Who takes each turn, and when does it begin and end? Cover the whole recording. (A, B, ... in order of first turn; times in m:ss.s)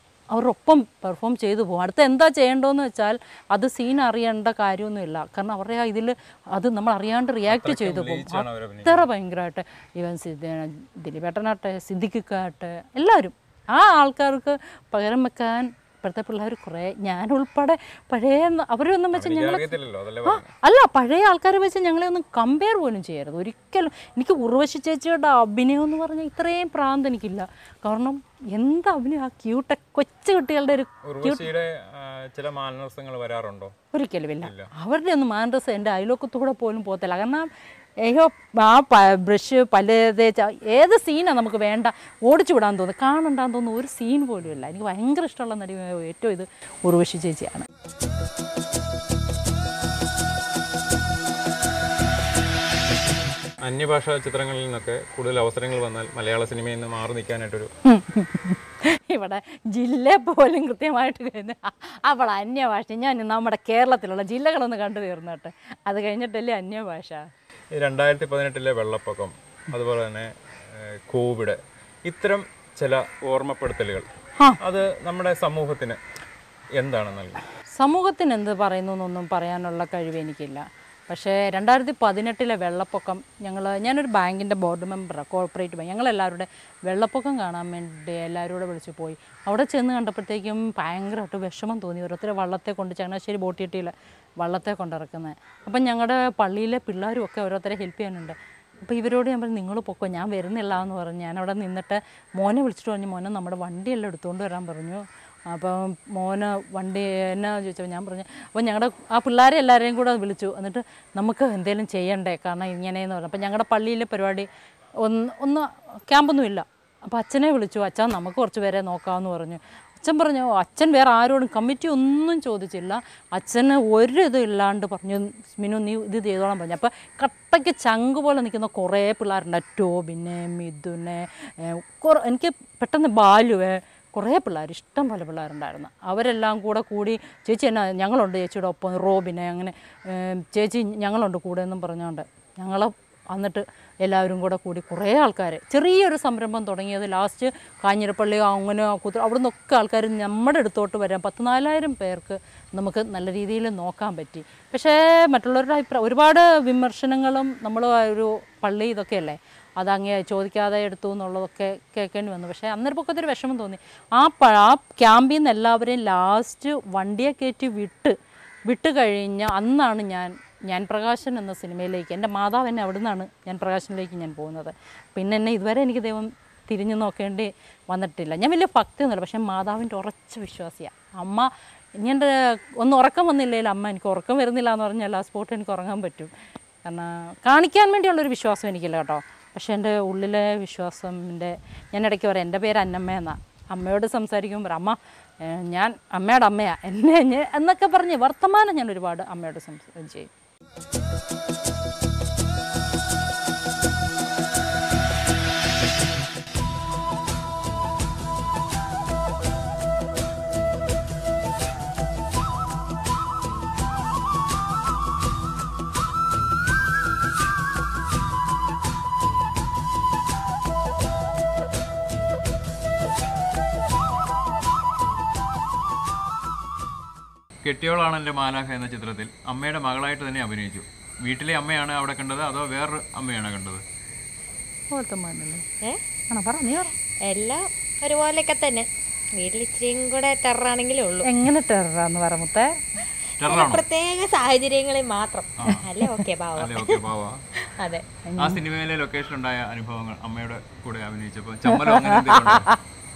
0:00.3-0:19.7 A
0:07.5-0:09.0 B
0:19.1-0:20.5 B
0:20.2-0:31.5 A
0:31.0-0:33.7 B
0:33.9-0:37.5 A
0:34.4-0:34.7 B
0:38.0-0:47.7 A
0:53.6-0:57.7 B
0:57.8-1:07.3 A
1:07.7-1:16.0 B
1:16.8-1:17.4 B
1:17.8-1:54.5 A
1:55.0-2:48.2 A
2:48.7-3:06.3 A
3:06.8-3:20.3 A
3:47.6-3:53.8 B
3:54.9-3:55.6 A
3:56.3-3:56.9 A
3:57.2-3:58.9 C
3:59.4-4:01.3 C
4:01.2-4:02.8 A
4:03.4-4:03.8 B
4:03.4-4:07.0 C
4:05.6-4:05.9 B
4:05.7-4:06.2 A
4:06.6-4:07.4 B
4:07.6-4:08.0 C
4:08.2-4:08.6 A
4:08.4-4:12.7 B
4:11.7-4:12.8 A